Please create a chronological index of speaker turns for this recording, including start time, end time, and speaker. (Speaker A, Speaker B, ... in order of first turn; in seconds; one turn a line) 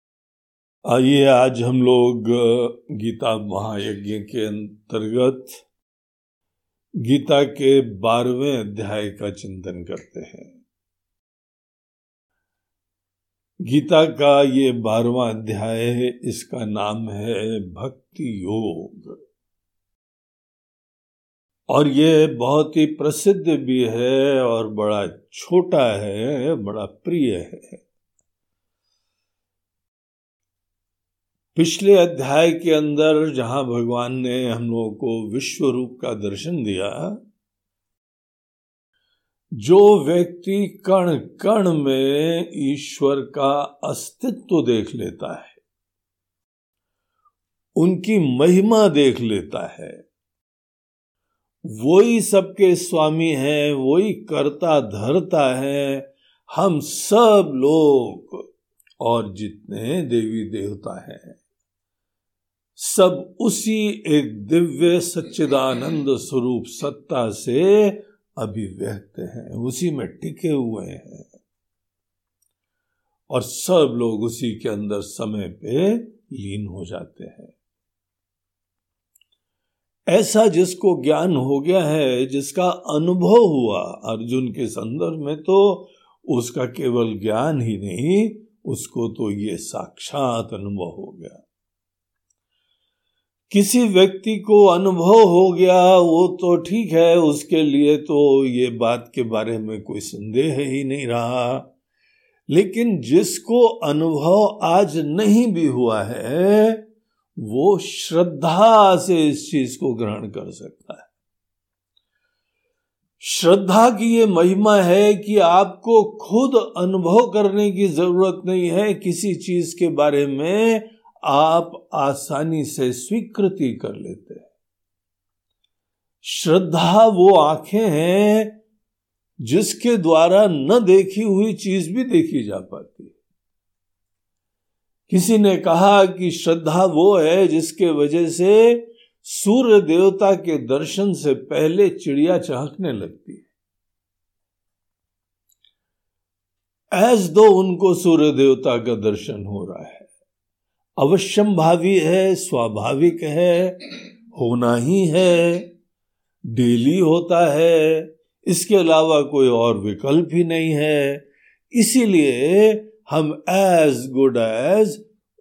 Speaker A: 0.9-5.6
Speaker A: 7.0-10.6
Speaker A: 13.7-19.2
Speaker A: 21.7-27.8
Speaker A: 31.5-37.2
Speaker A: 39.6-45.6
Speaker A: 47.8-50.0
Speaker A: 51.7-58.5
Speaker A: 59.0-61.4
Speaker A: 62.8-71.3
Speaker A: 73.3-77.5
Speaker A: 80.1-91.4
Speaker A: 93.5-101.7
Speaker A: 102.5-106.8
Speaker A: 107.4-111.1
Speaker A: 113.2-124.5
Speaker A: 126.2-128.5
Speaker A: 129.4-133.2
Speaker A: 135.1-143.5
Speaker A: 146.9-150.1
Speaker A: 151.0-155.7
Speaker A: 156.5-165.0